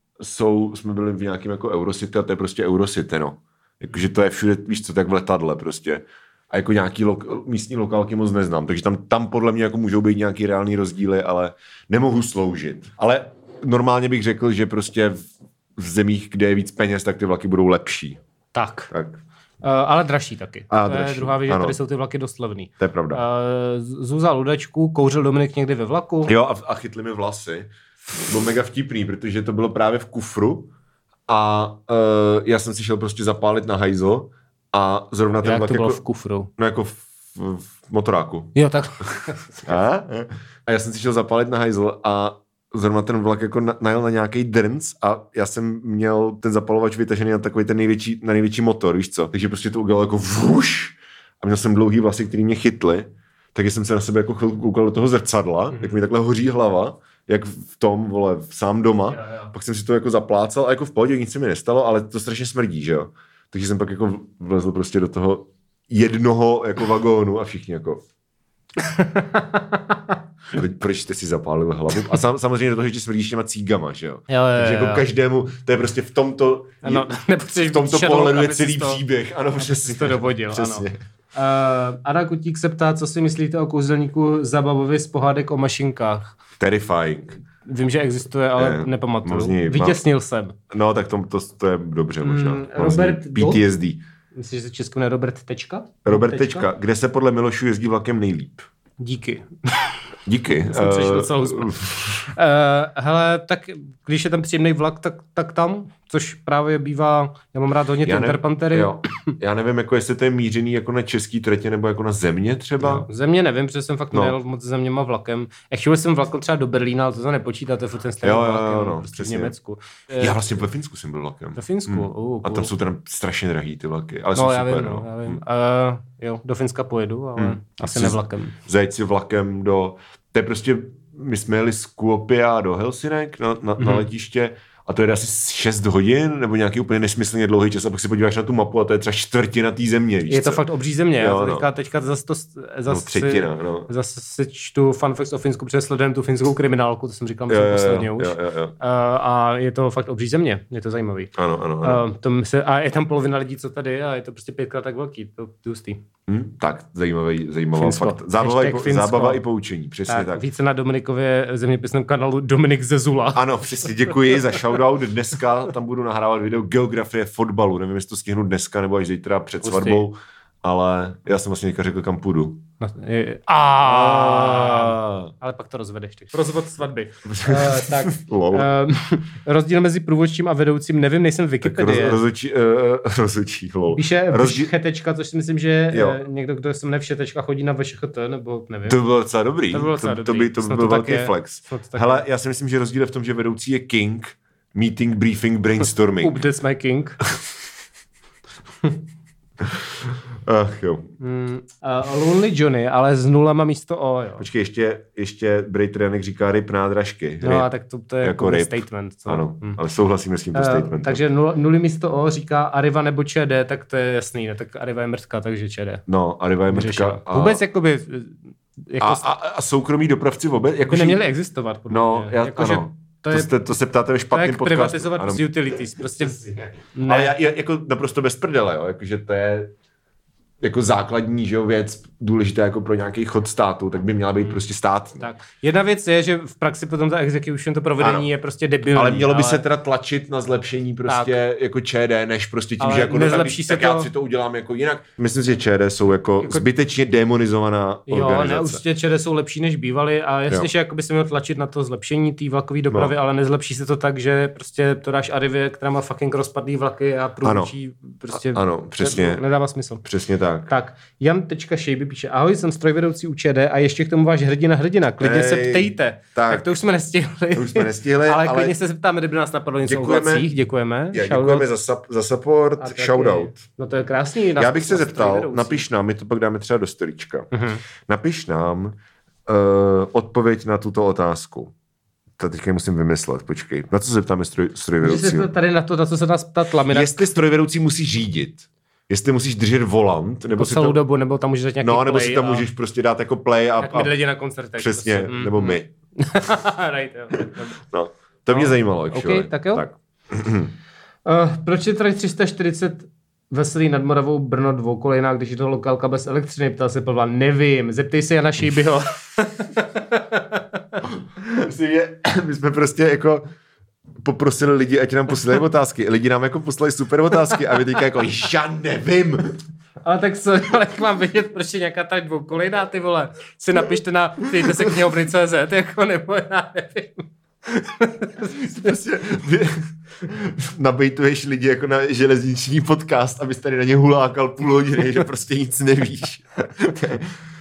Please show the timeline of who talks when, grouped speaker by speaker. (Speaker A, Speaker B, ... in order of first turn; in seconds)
Speaker A: 0.2-15.2, 15.8-18.2, 18.9-19.2, 20.7-21.8, 22.8-23.2, 26.2-30.7, 31.3-36.0, 36.6-38.5, 39.6-68.0, 70.5-81.0, 86.6-87.4, 88.5-90.0, 90.7-94.0, 96.0-98.7, 100.2-102.3, 108.0-113.1, 118.2-119.5, 120.2-125.4, 127.4-140.6, 141.2-141.7, 142.9-143.9, 147.5-148.7, 151.3-152.0, 156.3-160.4, 163.3-172.6, 173.8-175.3, 177.2-178.7, 181.6-184.7, 185.9-186.2, 188.9-196.4, 199.6-201.1, 204.4-207.7, 208.2-211.2, 216.1-217.6, 219.0-221.2, 221.9-225.5, 226.2-229.7, 230.6-235.2, 238.0-238.3, 238.9-248.8, 257.4-257.7, 258.3-259.4, 260.0-260.7, 265.2-266.7, 267.5-268.8, 269.8-270.5, 271.1-273.6, 274.6-277.5, 278.0-281.7, 282.4-285.5, 286.9-291.0, 291.8-294.1, 294.8-295.9, 297.9-300.7, 311.1-313.4, 314.2-319.6, 324.6-324.9, 328.4-337.3
Speaker B: 18.5-18.9, 19.6-26.3, 35.4-36.5, 38.5-39.7, 59.2-59.5, 68.8-70.2, 74.3-75.0, 76.8-79.0, 79.6-86.3, 87.6-90.5, 92.2-93.6, 94.3-96.7, 99.0-100.0, 100.6-101.8, 102.3-109.3, 112.8-120.6, 121.5-122.7, 124.3-128.6, 133.8-134.1, 140.3-156.0, 157.8-159.4, 160.1-164.6, 169.6-170.0, 172.8-182.2, 183.9-189.0, 189.7-192.2, 196.2-197.2, 201.2-204.4, 207.4-209.8, 210.5-216.0, 216.7-219.2, 220.9-223.5, 224.3-226.4, 226.9-227.3, 235.2-239.6, 241.1-241.4, 242.8-244.1, 248.1-260.0, 260.7-271.7, 272.8-275.8, 277.5-277.8, 285.0-287.3, 290.6-292.7, 293.8-297.8, 298.5-299.8, 301.2-311.0, 320.0-328.9